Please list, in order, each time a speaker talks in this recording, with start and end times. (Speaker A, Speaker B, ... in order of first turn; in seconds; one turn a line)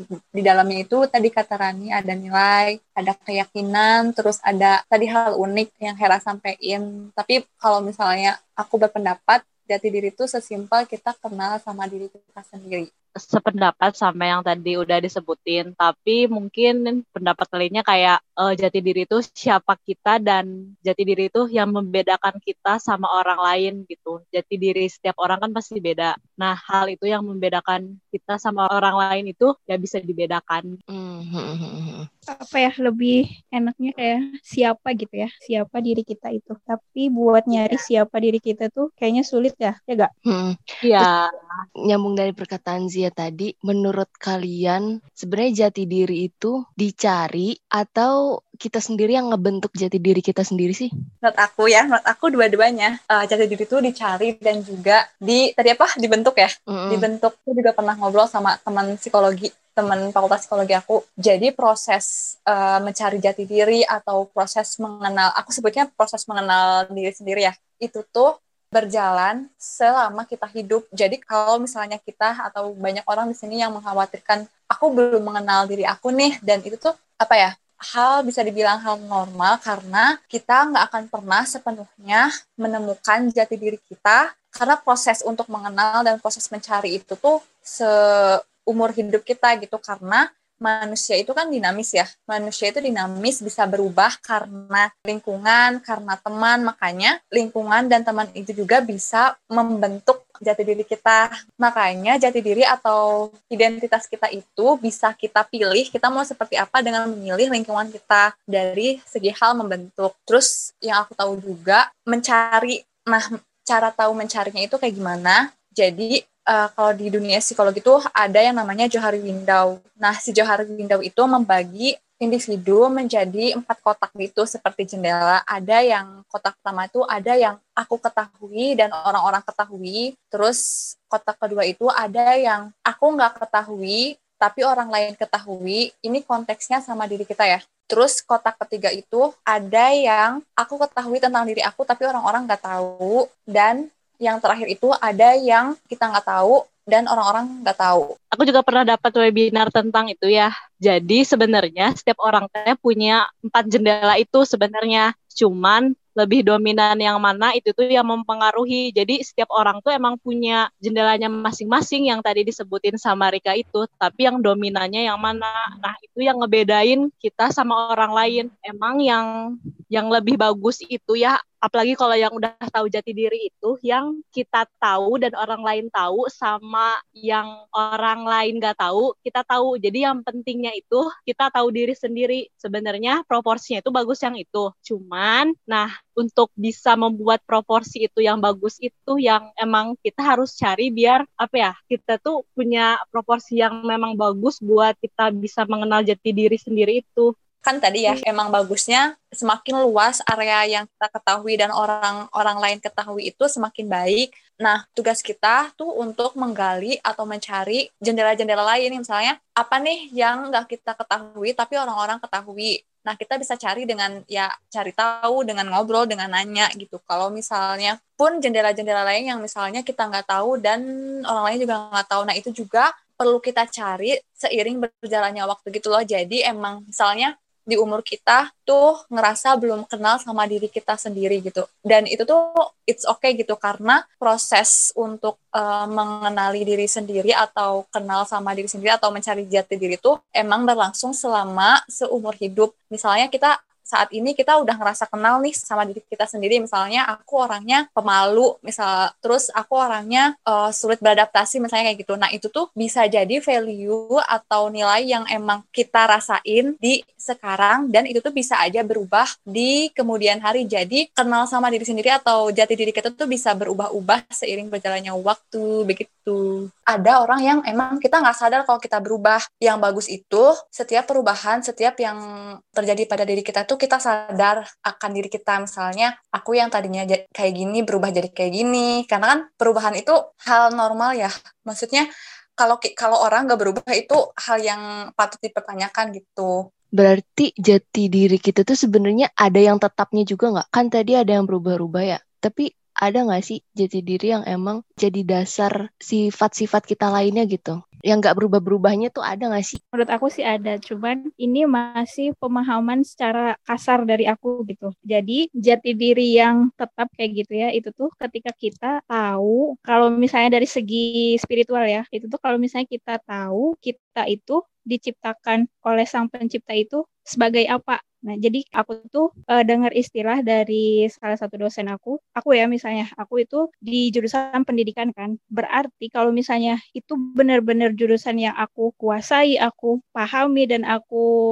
Speaker A: 0.4-12.9
Speaker B: 13.2-30.8
Speaker C: 30.9-32.1
Speaker D: 32.3-40.1
Speaker C: 40.3-41.1
Speaker B: 40.8-41.6
Speaker C: 41.9-50.9
Speaker A: 51.2-87.9
Speaker C: 56.7-57.1
Speaker A: 88.7-130.6
Speaker A: 131.1-148.1
Speaker B: 148.3-169.3
Speaker B: 169.9-197.3
Speaker A: 197.7-220.8
Speaker A: 221.3-266.4
Speaker A: 266.9-272.2
Speaker A: 272.8-282.1
Speaker A: 282.6-286.5
Speaker C: 287.0-299.8
Speaker D: 299.9-331.2